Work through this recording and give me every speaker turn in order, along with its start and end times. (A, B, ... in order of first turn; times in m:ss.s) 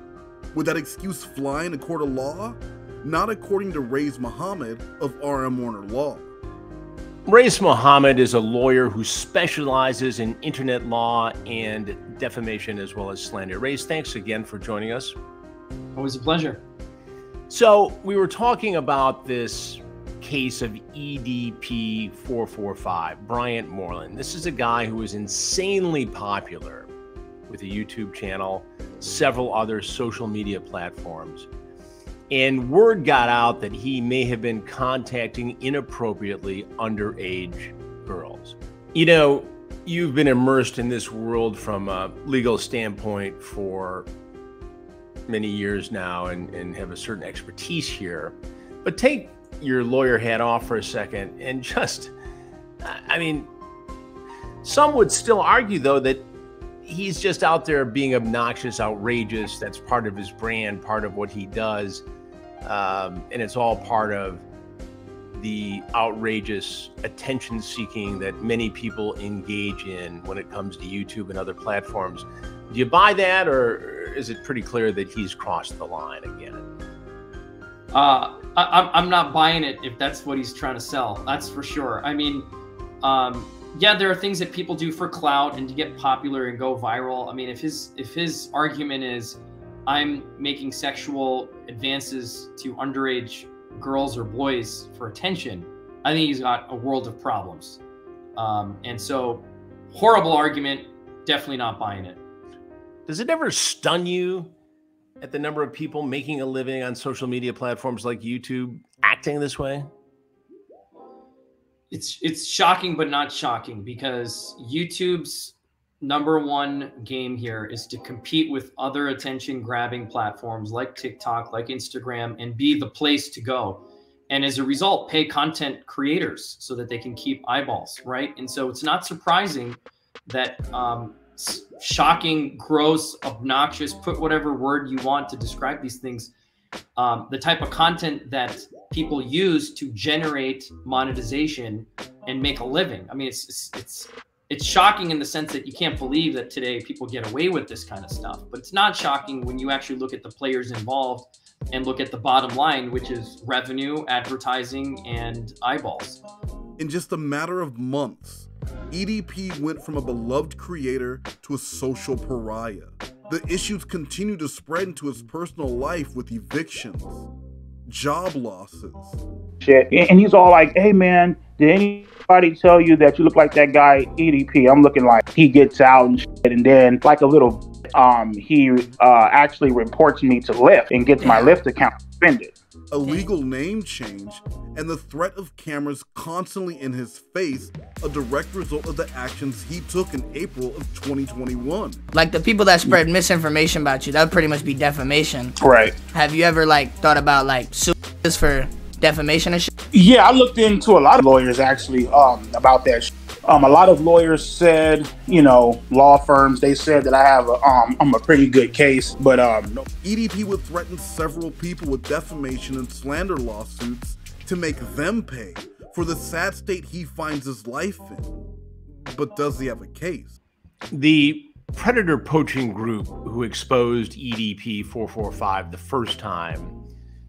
0:00.5-0:06.3 A
0:07.3-0:15.2 B
0:16.0-0:16.6 C
0:17.5-0:26.9 B
0:27.5-0:31.5 B
0:32.3-0:44.1 B
0:45.3-0:52.1 B
0:52.8-0:53.5 B
0:54.6-0:56.3 B
0:56.8-1:02.0 B
1:02.6-1:04.4 B
1:05.4-1:16.6 B
1:17.9-1:22.5 C
1:23.0-1:37.8 C
1:38.4-1:42.2 C
1:43.1-1:44.5 B
1:45.2-1:49.9 B
1:51.9-2:16.3 C
2:17.0-2:36.2 C
2:36.8-2:47.3 A
2:47.9-2:49.2 A
2:49.6-3:02.5 D
3:01.2-3:01.6 E
3:02.9-3:12.0 A
3:12.1-3:15.5 E
3:15.6-3:16.0 D
3:16.1-3:19.7 E
3:19.9-3:29.9 D
3:30.0-3:40.4 A
3:40.9-3:46.8 B